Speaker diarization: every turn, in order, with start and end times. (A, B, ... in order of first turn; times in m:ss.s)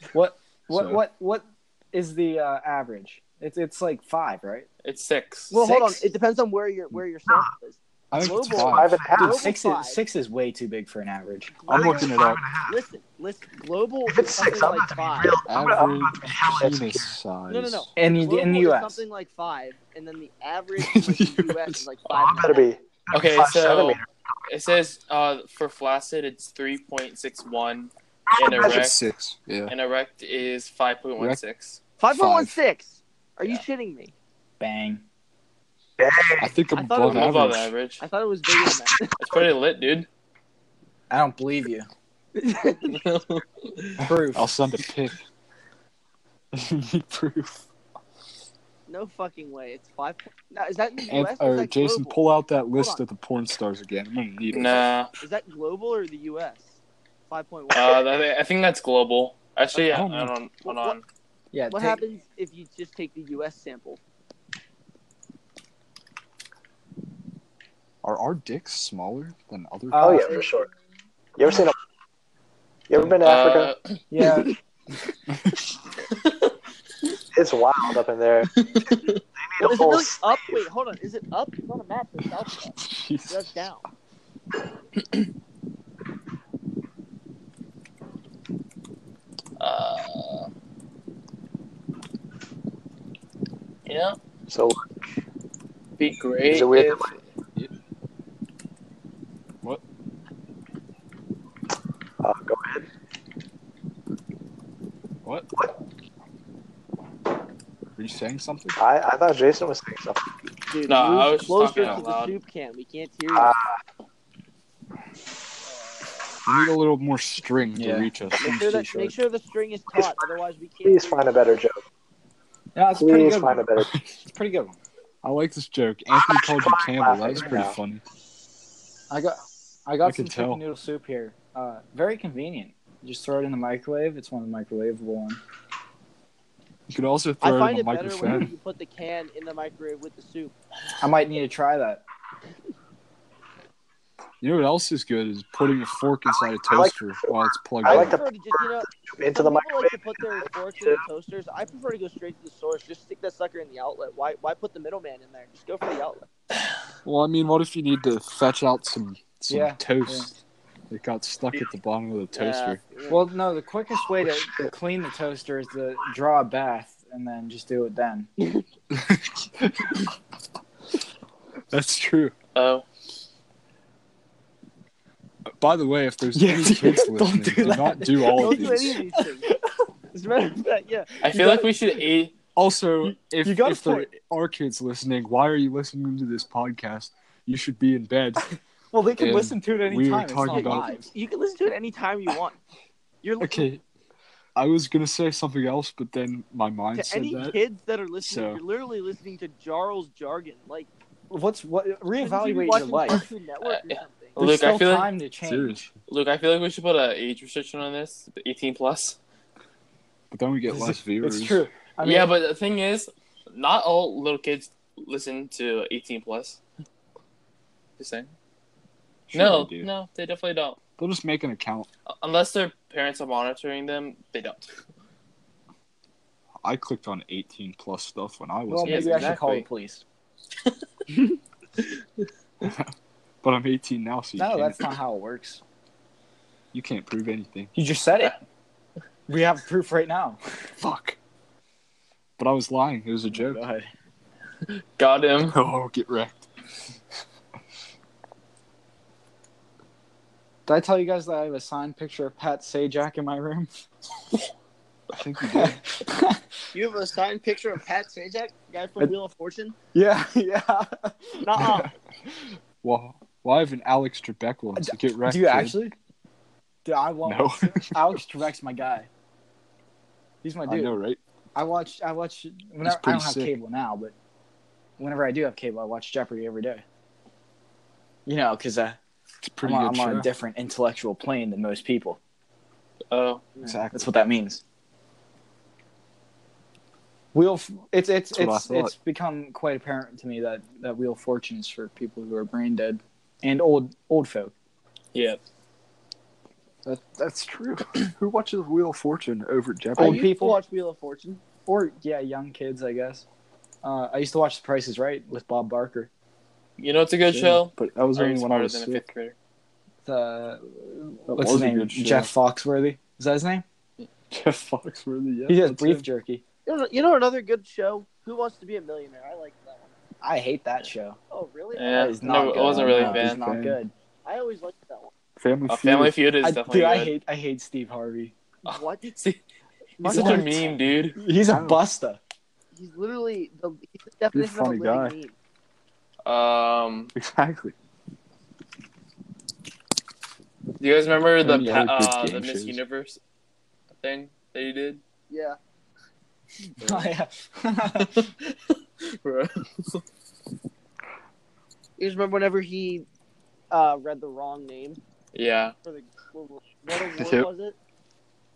0:00.1-0:04.7 A
0:00.7-0:01.0 B
0:04.8-0:05.5 C
0:05.5-0:06.0 A
0:05.5-0:10.0 D
0:08.1-0:09.1 B
0:08.5-0:09.4 E
0:09.2-0:11.6 A
0:11.6-0:12.1 D
0:11.7-0:12.8 E
0:11.7-0:12.4 B
0:12.7-0:15.4 D
0:14.1-0:17.1 E
0:15.4-0:17.9 B
0:17.5-0:22.7 D
0:18.0-0:19.0 A
0:20.8-0:21.8 B
0:22.1-0:24.1 E
0:23.1-0:29.0 C
0:28.3-0:28.8 E
0:28.4-0:29.7 B
0:29.7-0:31.8 C
0:32.0-0:34.1 D
0:32.1-0:32.6 B
0:34.6-0:35.0 A
0:36.0-0:36.5 E
0:36.4-0:37.7 B
0:36.7-0:37.3 D
0:37.0-0:38.0 C
0:38.0-0:39.5 D
0:39.2-0:40.1 C
0:41.1-0:41.9 A
0:42.4-0:43.2 D
0:42.9-0:44.0 C
0:44.0-0:44.5 A
0:44.3-0:45.2 B
0:46.5-0:47.6 B
0:48.9-0:52.2 D
0:51.1-0:54.8 B
0:52.7-0:53.0 D
0:54.5-0:55.1 C
0:54.7-0:58.2 D
0:57.7-1:01.0 C
0:59.9-1:00.4 B
1:00.6-1:01.0 D
1:01.5-1:02.0 A
1:01.7-1:04.0 D
1:08.0-1:10.4 B
1:09.9-1:10.3 A
1:10.0-1:10.7 E
1:10.1-1:10.5 D
1:11.4-1:11.8 E
1:12.9-1:13.7 E
1:13.1-1:14.0 C
1:14.1-1:14.5 A
1:16.1-1:16.5 C
1:17.3-1:18.5 E
1:18.5-1:19.2 C
1:19.4-1:20.6 E
1:19.6-1:23.8 D
1:22.8-1:23.7 B
1:29.6-1:30.5 C
1:33.8-1:34.2 C
1:34.5-1:34.8 E
1:36.0-1:37.2 C
1:36.5-1:37.1 E
1:42.2-1:42.9 E
1:48.0-1:48.8 B
1:48.8-1:50.2 E
1:50.7-1:53.6 D
1:50.9-1:52.4 C
1:53.3-1:53.7 E
1:56.4-1:59.1 B
1:57.7-1:59.1 A
1:58.4-2:01.2 D
1:59.9-2:00.3 E
2:00.8-2:01.8 E
2:02.7-2:03.7 A
2:03.0-2:03.9 E
2:03.8-2:04.1 B
2:04.2-2:04.8 A
2:05.2-2:08.0 B
2:06.1-2:07.8 E
2:09.1-2:15.4 A
2:10.0-2:10.6 B
2:16.9-2:18.5 B
2:17.4-2:20.5 D
2:21.0-2:22.0 A
2:24.4-2:28.2 B
2:26.3-2:31.0 E
2:27.8-2:36.3 D
2:37.0-2:40.4 B
2:39.5-2:40.3 A
2:40.9-2:42.8 B
2:42.3-2:43.3 D
2:43.1-2:48.3 A
2:48.9-2:50.1 B
2:51.7-2:52.3 B
2:52.5-2:52.8 C
2:55.5-2:59.0 B
2:56.3-2:58.4 A
2:57.6-2:59.5 D
2:59.1-2:59.5 A
3:00.1-3:01.3 D
3:01.2-3:02.3 C
3:01.2-3:01.7 A
3:02.5-3:08.4 B
3:03.0-3:04.1 A
3:08.9-3:11.1 A
3:09.2-3:11.0 B
3:10.5-3:12.6 D
3:13.2-3:13.7 D
3:13.4-3:13.8 B
3:14.5-3:17.6 B
3:16.9-3:20.9 D
3:18.2-3:18.6 B
3:21.3-3:23.2 A
3:22.1-3:24.4 D
3:23.6-3:25.1 C
3:24.4-3:25.8 A
3:25.4-3:26.0 B
3:26.1-3:29.2 C
3:30.3-3:31.6 B
3:30.7-3:32.3 A
3:32.0-3:36.6 C
3:38.0-3:38.3 C
3:39.3-3:39.9 B
3:39.3-3:40.8 C
3:41.0-3:41.9 B
3:42.1-3:44.7 C
3:46.6-3:49.7 B
3:48.7-3:50.0 A
3:48.8-3:49.3 C
3:52.6-3:52.9 B
3:53.4-3:55.0 B
3:54.4-3:55.6 A
3:56.7-3:57.7 B
3:57.7-3:58.4 A
3:59.3-4:00.4 A
4:00.8-4:01.2 B
4:02.4-4:03.6 B
4:03.3-4:03.9 A
4:04.7-4:05.6 C
4:05.5-4:06.5 B
4:10.7-4:13.7 A
4:15.1-4:15.8 B
4:15.6-4:16.4 A
4:16.7-4:19.8 D
4:19.9-4:21.8 A
4:21.4-4:21.9 D
4:21.6-4:21.9 B
4:22.8-4:25.8 B
4:24.8-4:25.9 A
4:26.8-4:29.1 A
4:27.2-4:28.2 B
4:30.4-4:30.9 A
4:30.7-4:31.2 B
4:31.5-4:34.1 A
4:32.8-4:33.6 B
4:35.0-4:36.8 A
4:38.2-4:39.0 A
4:39.4-4:40.3 B
4:39.6-4:42.2 A
4:43.1-4:43.4 C
4:43.6-4:44.1 B
4:43.9-4:44.6 A
4:47.3-4:54.5 A
4:48.3-4:48.9 B
4:55.1-4:55.4 C
4:56.8-5:00.2 B
5:00.0-5:01.4 D
5:00.0-5:00.6 A
5:01.7-5:03.2 A
5:03.8-5:06.1 A
5:06.8-5:09.3 C
5:07.2-5:09.0 B
5:10.0-5:13.6 A
5:11.3-5:12.3 B
5:14.3-5:16.1 B
5:15.5-5:16.4 A
5:16.6-5:19.9 D
5:20.2-5:21.2 A
5:21.3-5:22.2 D
5:21.7-5:23.4 C
5:21.9-5:23.9 A
5:22.7-5:23.8 B
5:24.2-5:25.1 D
5:25.4-5:26.2 B
5:25.7-5:27.1 C
5:26.4-5:28.3 A
5:28.6-5:29.2 D
5:28.6-5:29.4 C
5:30.0-5:30.8 D
5:30.0-5:31.2 C
5:30.1-5:30.5 A
5:31.1-5:32.2 A
5:31.4-5:31.8 B
5:32.7-5:35.3 D
5:34.3-5:35.2 B
5:36.2-5:37.1 C
5:37.1-5:37.7 B
5:40.8-5:43.2 C
5:41.4-5:42.8 B
5:44.0-5:45.0 C
5:45.3-5:45.6 D
5:46.8-5:48.3 A
5:48.0-5:50.0 C
5:52.0-5:53.0 D
5:53.7-5:55.0 D
5:55.3-5:55.7 C
5:55.8-5:57.8 D
5:57.1-5:57.5 B